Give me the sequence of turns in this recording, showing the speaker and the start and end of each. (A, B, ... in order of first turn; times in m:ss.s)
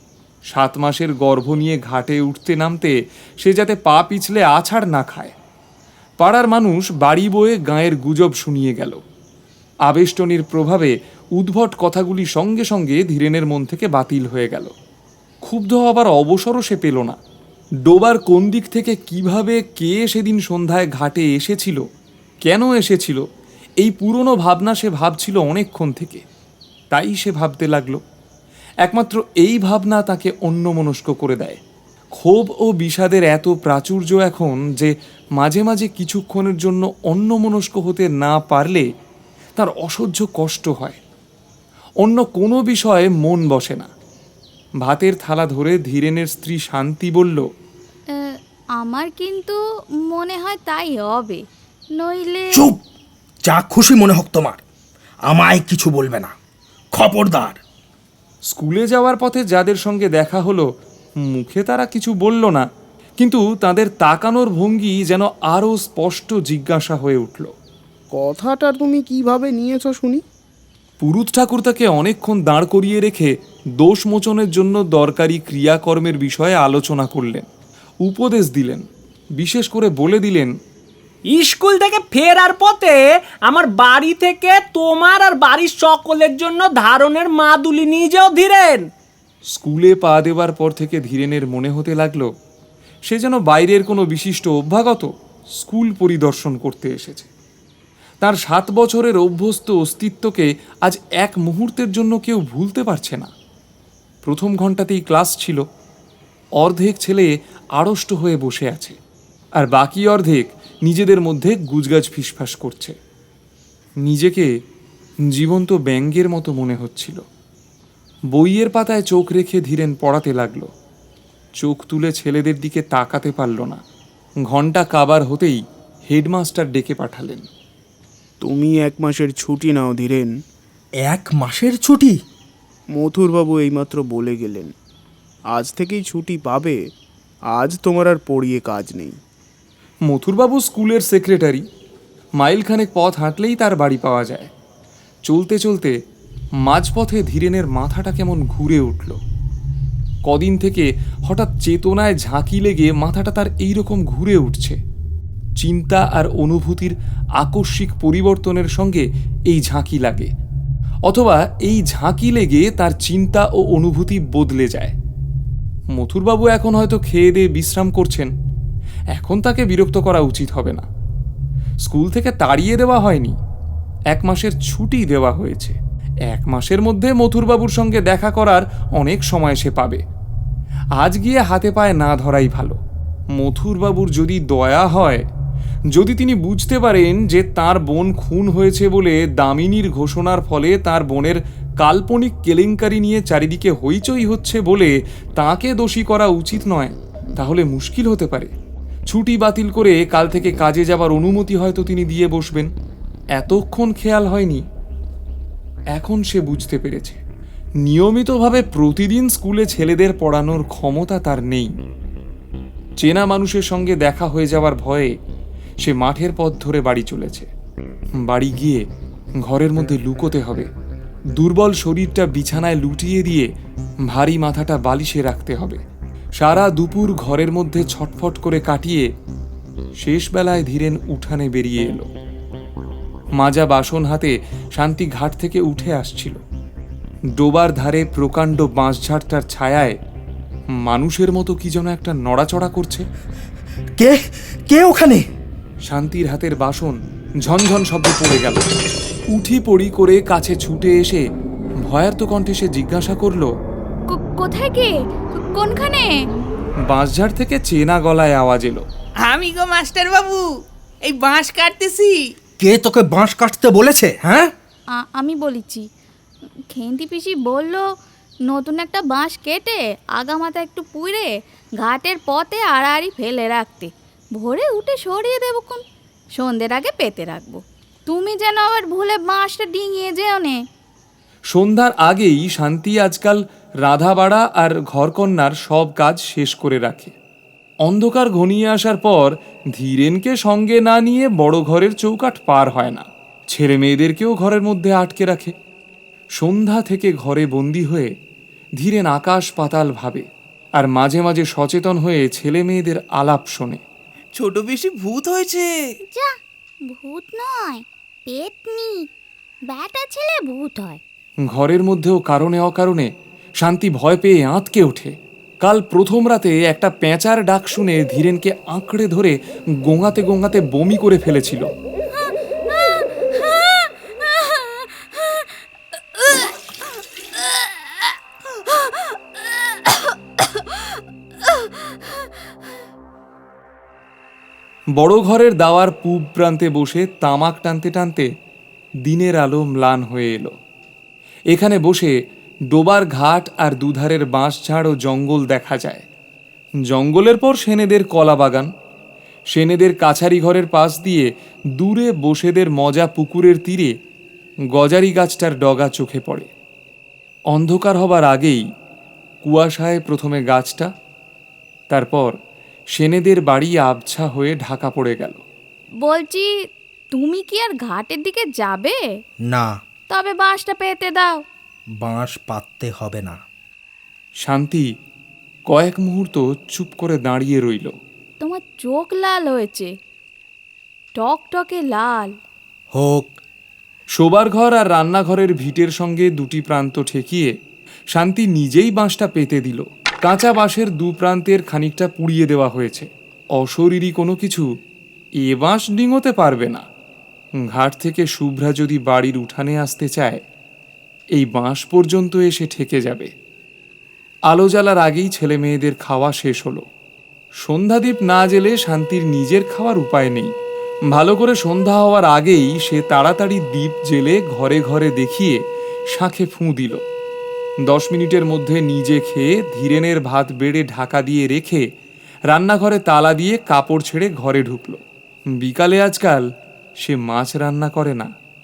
0:00.5-0:05.3 A
0:06.2-0:09.0 A
0:09.9-0:14.7 A
0:15.5-0:17.2 A
0:17.9-0:21.8 A
0:22.4-0:23.2 A
0:23.8-0:26.2 A
0:26.9-0:28.0 A
0:28.8-0:31.6 A
0:32.2-0:38.9 A
0:39.6-0:41.0 A
0:42.0-0:43.9 A
0:44.8-0:47.5 A
0:48.1-0:51.4 B
0:52.0-0:52.7 B
0:52.5-0:52.8 C
0:53.5-0:54.6 C
0:55.3-0:56.3 C
0:56.9-0:57.6 C
0:58.5-1:00.7 A
1:01.2-1:02.7 A
1:03.2-1:07.5 A
1:08.1-1:10.2 D
1:11.0-1:17.4 A
1:18.0-1:18.9 A
1:19.4-1:20.5 A
1:21.3-1:28.9 E
1:29.5-1:32.3 A
1:33.1-1:37.3 A
1:38.2-1:43.3 A
1:44.2-1:45.6 A
1:46.6-1:49.0 A
1:49.6-1:53.0 A
1:54.0-1:54.5 A
1:55.3-1:57.2 A
1:58.3-2:00.7 A
2:01.6-2:03.8 A
2:04.4-2:07.5 A
2:08.4-2:10.3 D
2:11.0-2:12.2 C
2:12.9-2:14.7 D
2:15.5-2:16.8 D
2:17.5-2:19.2 D
2:20.1-2:21.6 A
2:22.4-2:24.5 A
2:25.3-2:26.0 A
2:26.6-2:29.2 A
2:30.2-2:34.8 A
2:35.6-2:40.3 A
2:41.1-2:44.9 A
2:46.0-2:48.3 A
2:49.2-2:50.9 A
2:51.9-2:53.4 A
2:54.1-3:00.0 A
3:01.0-3:02.8 A
3:03.4-3:05.2 A
3:05.9-3:18.5 A
3:19.1-3:22.7 A
3:23.4-3:24.6 A
3:25.9-3:27.2 A
3:27.8-3:31.7 A
3:33.0-3:35.1 A
3:35.8-3:37.5 A
3:38.2-3:38.9 A
3:39.4-3:40.7 A
3:41.4-3:43.5 A
3:44.1-3:45.8 A
3:46.4-3:49.1 A
3:50.0-3:52.1 A
3:53.4-3:56.4 A
3:57.4-4:00.0 A
4:00.8-4:03.1 A
4:04.0-4:05.2 C
4:05.9-4:08.7 A
4:09.3-4:11.2 A
4:11.9-4:13.5 A
4:14.1-4:16.1 B
4:16.8-4:18.8 A
4:19.2-4:22.3 F
4:22.6-4:24.5 C
4:25.0-4:25.8 B
4:26.7-4:27.8 B
4:28.5-4:35.8 B
4:36.4-4:40.6 B
4:41.5-4:47.1 A
4:47.8-4:55.6 A
4:56.4-4:58.1 A
4:58.8-5:03.8 A
5:04.3-5:05.9 F
5:06.1-5:06.4 B
5:06.9-5:09.1 B
5:09.7-5:11.0 B
5:11.5-5:13.1 A
5:13.6-5:21.7 A
5:22.2-5:25.5 B
5:26.2-5:26.7 B
5:27.4-5:28.0 B
5:28.6-5:31.7 B
5:35.0-5:38.3 A
5:39.1-5:40.5 A
5:41.5-5:42.1 A
5:42.7-5:46.1 A
5:46.9-5:48.7 A
5:49.5-5:53.9 A
5:54.7-5:56.5 A
5:57.5-5:58.6 A
5:59.4-6:00.9 A
6:01.9-6:02.4 A
6:03.0-6:05.4 A
6:06.0-6:06.5 B
6:07.1-6:09.0 B
6:09.5-6:09.8 C
6:10.1-6:11.4 B
6:12.0-6:13.4 C
6:14.4-6:14.9 A
6:15.7-6:17.9 A
6:18.4-6:20.0 B
6:21.1-6:22.4 B
6:22.9-6:23.4 C
6:24.2-6:27.5 A
6:28.1-6:34.7 A
6:35.4-6:36.9 A
6:37.6-6:40.4 A
6:41.4-6:43.3 A
6:44.5-6:46.8 A
6:47.6-6:50.5 A
6:51.1-6:55.6 A
6:56.1-6:57.0 A
6:57.9-7:01.8 A
7:02.5-7:05.0 A
7:05.6-7:06.4 A
7:07.0-7:08.3 A